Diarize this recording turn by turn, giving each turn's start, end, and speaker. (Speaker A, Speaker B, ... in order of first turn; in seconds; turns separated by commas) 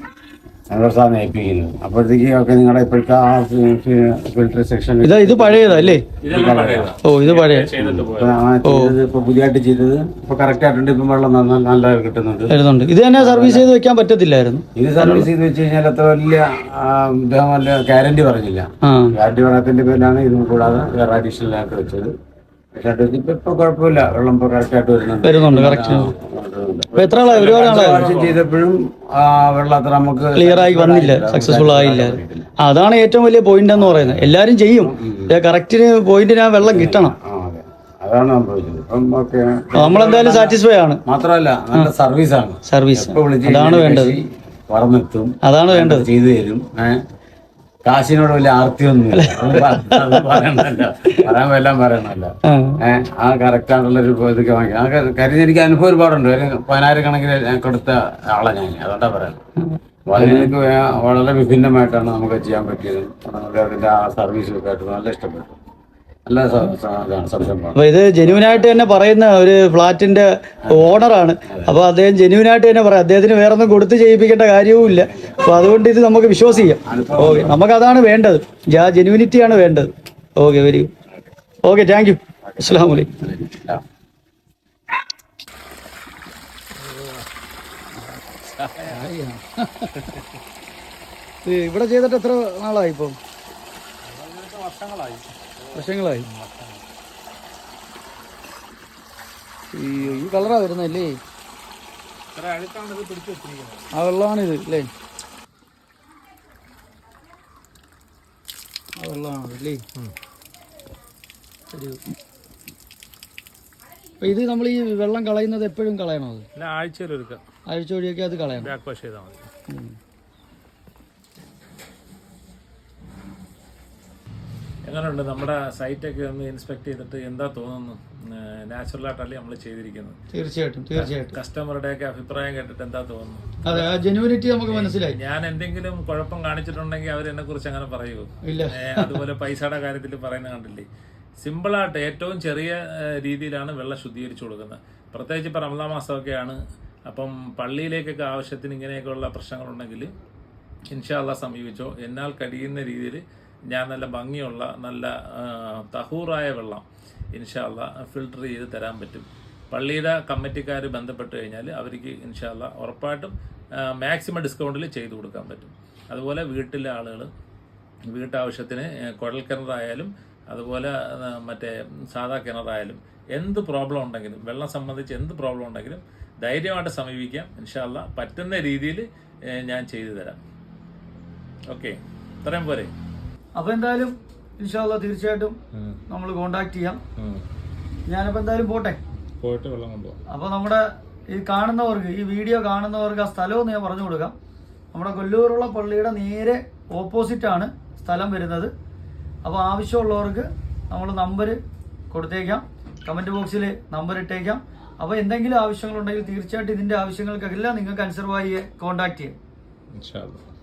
Speaker A: 0.7-6.9, Speaker B: 5.0-6.0, Speaker C: 6.2-8.4, Speaker B: 7.0-7.7, Speaker A: 7.8-12.6, Speaker B: 8.6-8.9, Speaker B: 12.5-15.3, Speaker A: 13.2-13.7, Speaker A: 14.8-22.1, Speaker B: 18.8-19.1, Speaker A: 22.8-32.5, Speaker B: 25.2-26.1, Speaker B: 27.0-28.3, Speaker C: 27.3-28.3, Speaker B: 30.4-37.1, Speaker A: 33.7-35.3, Speaker A: 36.6-47.0, Speaker B: 39.8-41.0, Speaker B: 42.7-44.2, Speaker B: 45.4-46.1, Speaker A: 47.9-59.4, Speaker B: 49.1-50.4, Speaker B: 52.5-52.8, Speaker A: 60.1-65.5, Speaker B: 60.2-60.5, Speaker A: 66.3-67.8, Speaker B: 67.8-80.9, Speaker A: 71.5-71.8, Speaker A: 74.9-75.7, Speaker A: 76.4-77.6, Speaker B: 81.6-83.1, Speaker A: 82.5-83.8, Speaker C: 86.8-87.3, Speaker C: 88.5-89.2, Speaker B: 88.9-89.9, Speaker C: 90.0-90.3, Speaker B: 91.5-93.2, Speaker C: 94.0-96.9, Speaker B: 95.8-96.3, Speaker B: 99.7-101.2, Speaker C: 100.0-100.6, Speaker C: 102.3-103.9, Speaker B: 103.9-104.9, Speaker B: 109.0-109.8, Speaker B: 111.7-112.0, Speaker B: 114.2-116.5, Speaker C: 116.6-117.4, Speaker B: 117.7-118.7, Speaker C: 118.6-119.5, Speaker B: 119.7-120.0, Speaker C: 124.9-130.2, Speaker B: 130.3-131.3, Speaker C: 130.9-134.0, Speaker B: 133.7-135.2, Speaker C: 134.7-140.9, Speaker B: 138.5-139.1, Speaker C: 141.4-150.1, Speaker C: 150.9-156.8, Speaker C: 157.4-167.3, Speaker C: 168.1-179.1, Speaker C: 179.6-180.4, Speaker C: 181.7-182.9, Speaker B: 183.6-185.6, Speaker C: 185.7-186.0, Speaker B: 186.1-187.0, Speaker C: 187.2-187.4, Speaker B: 188.1-189.0, Speaker C: 189.4-190.2, Speaker B: 190.3-190.8, Speaker B: 191.3-194.3, Speaker B: 194.9-198.7, Speaker B: 199.4-201.6, Speaker B: 202.1-209.3, Speaker C: 209.9-210.4